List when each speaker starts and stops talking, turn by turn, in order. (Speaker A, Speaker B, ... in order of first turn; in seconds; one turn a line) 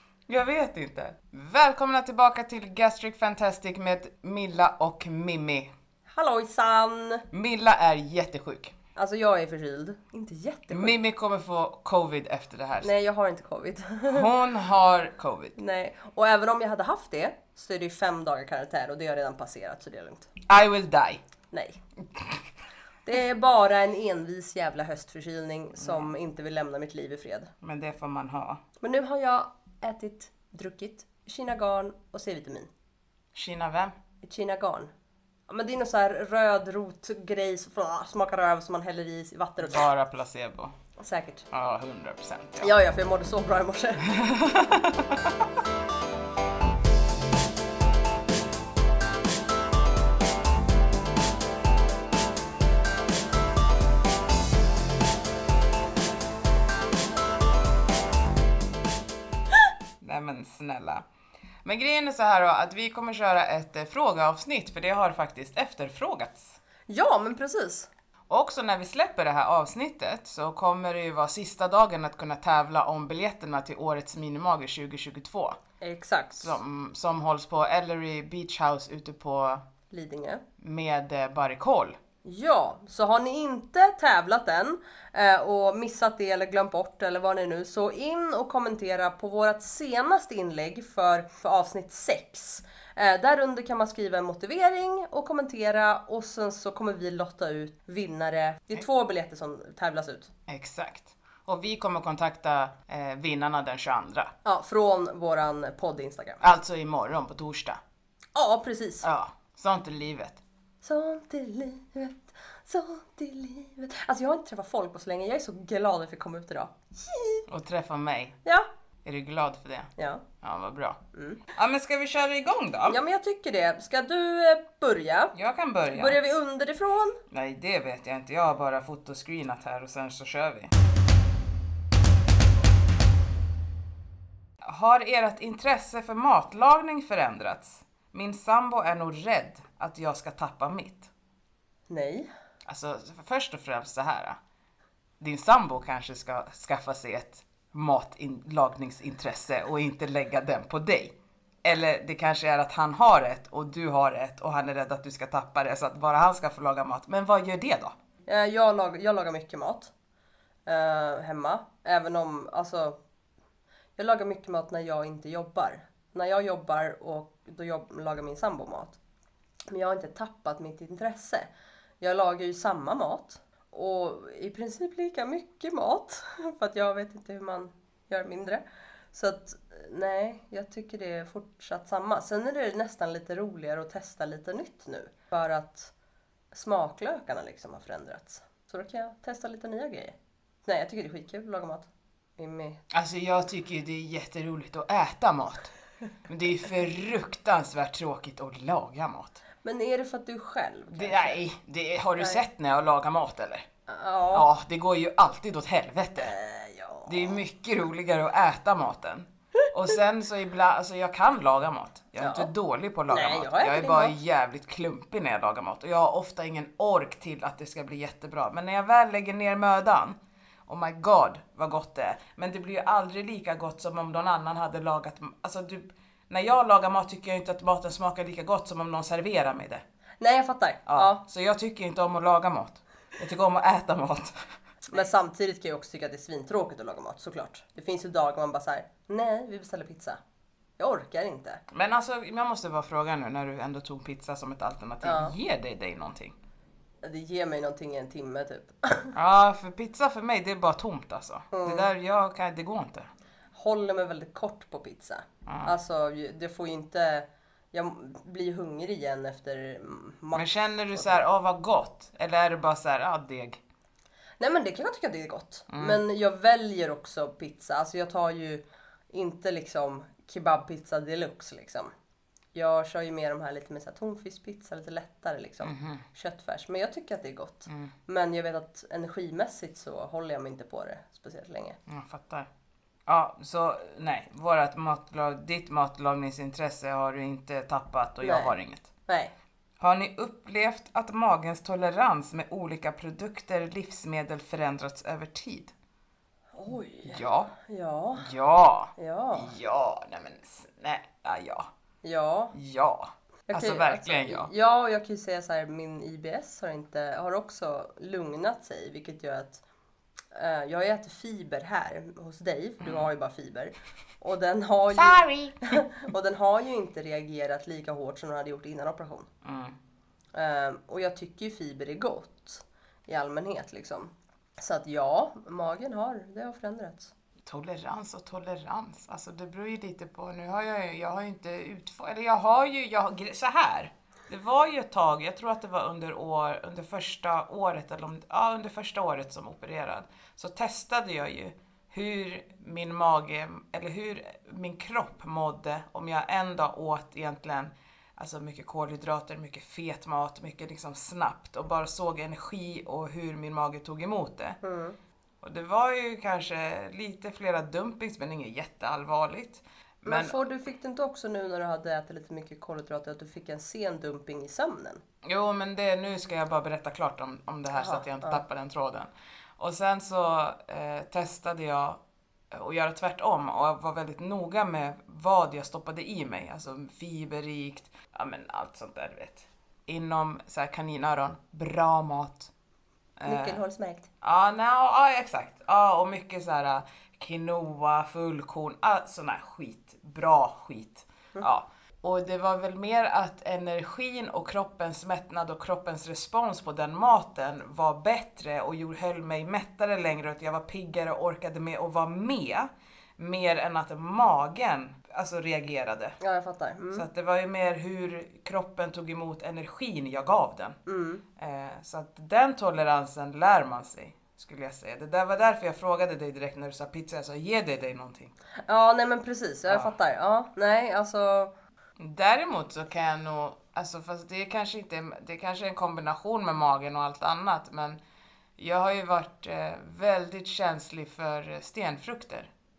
Speaker A: 0.3-5.7
Speaker B: 6.1-7.2
Speaker A: 7.3-8.7
Speaker B: 8.9-10.9
Speaker A: 10.7-12.9
Speaker B: 12.8-14.3
Speaker A: 14.1-15.6
Speaker B: 15.6-20.3
Speaker A: 20.4-21.2
Speaker B: 21.5-21.8
Speaker A: 22.1-22.4
Speaker B: 23.1-27.5
Speaker A: 27.6-28.6
Speaker B: 28.8-32.7
Speaker A: 33.4-34.0
Speaker B: 34.2-34.9
Speaker B: 35.5-39.9
Speaker A: 39.6-40.7
Speaker B: 41.0-41.5
Speaker A: 41.5-42.7
Speaker B: 42.6-44.1
Speaker A: 44.0-45.5
Speaker A: 60.0-61.0
Speaker A: 61.6-66.6
Speaker B: 66.9-67.9
Speaker A: 68.3-75.6
Speaker B: 75.8-76.6
Speaker A: 76.4-79.6
Speaker B: 79.9-80.4
Speaker A: 80.6-82.0
Speaker B: 82.2-100.3
Speaker A: 100.5-104.3
Speaker B: 104.4-106.4
Speaker A: 106.4-107.8
Speaker B: 108.3-109.0
Speaker A: 109.0-110.4
Speaker B: 110.8-117.4
Speaker A: 117.5-118.3
Speaker A: 119.0-121.0
Speaker B: 120.0-120.2
Speaker B: 121.1-121.4
Speaker A: 121.5-123.0
Speaker B: 122.9-125.3
Speaker A: 125.3-126.2
Speaker B: 125.9-127.2
Speaker A: 127.3-130.7
Speaker A: 134.6-141.1
Speaker B: 141.9-142.3
Speaker A: 142.7-144.4
Speaker A: 145.2-157.9
Speaker B: 158.3-159.9
Speaker B: 160.7-163.0
Speaker B: 164.0-169.0
Speaker B: 169.7-171.5
Speaker B: 172.0-178.6
Speaker B: 179.1-185.9
Speaker B: 186.5-192.8
Speaker A: 192.9-195.7
Speaker A: 196.3-199.4
Speaker B: 199.6-201.4
Speaker A: 200.9-203.7
Speaker B: 203.9-204.5
Speaker A: 204.3-206.3
Speaker B: 206.2-207.4
Speaker A: 207.1-229.8
Speaker B: 212.2-212.5
Speaker B: 213.1-214.2
Speaker B: 230.2-231.2
Speaker A: 230.9-234.3
Speaker B: 234.9-240.2
Speaker B: 240.8-241.6
Speaker A: 241.7-246.3
Speaker B: 245.0-245.3
Speaker B: 247.0-249.1
Speaker A: 249.1-253.1
Speaker B: 251.5-251.9
Speaker B: 253.6-261.2
Speaker A: 255.4-255.7
Speaker A: 260.3-263.6
Speaker B: 264.4-271.9
Speaker A: 265.7-266.0
Speaker B: 272.5-281.8
Speaker A: 275.6-276.0
Speaker A: 277.7-277.9
Speaker A: 281.9-282.5
Speaker A: 283.1-288.9
Speaker B: 288.2-288.5
Speaker B: 289.1-289.3
Speaker A: 289.8-295.7
Speaker B: 296.6-298.3
Speaker A: 297.0-297.5
Speaker A: 298.2-301.7
Speaker B: 299.0-299.5
Speaker B: 302.0-302.5
Speaker A: 302.5-304.5
Speaker B: 303.5-309.6
Speaker B: 310.3-319.3
Speaker A: 314.9-315.8
Speaker A: 319.4-319.8
Speaker B: 320.3-327.1
Speaker A: 327.4-354.6
Speaker B: 354.6-354.9
Speaker A: 355.4-360.3
Speaker B: 360.1-365.0
Speaker A: 365.2-382.5
Speaker B: 367.8-368.4
Speaker A: 383.2-383.6
Speaker B: 383.2-384.1
Speaker A: 384.2-406.2
Speaker B: 406.2-407.1
Speaker A: 406.9-410.8
Speaker B: 410.9-411.2
Speaker A: 411.4-418.3
Speaker B: 418.7-421.5
Speaker A: 422.0-428.0
Speaker A: 428.6-432.5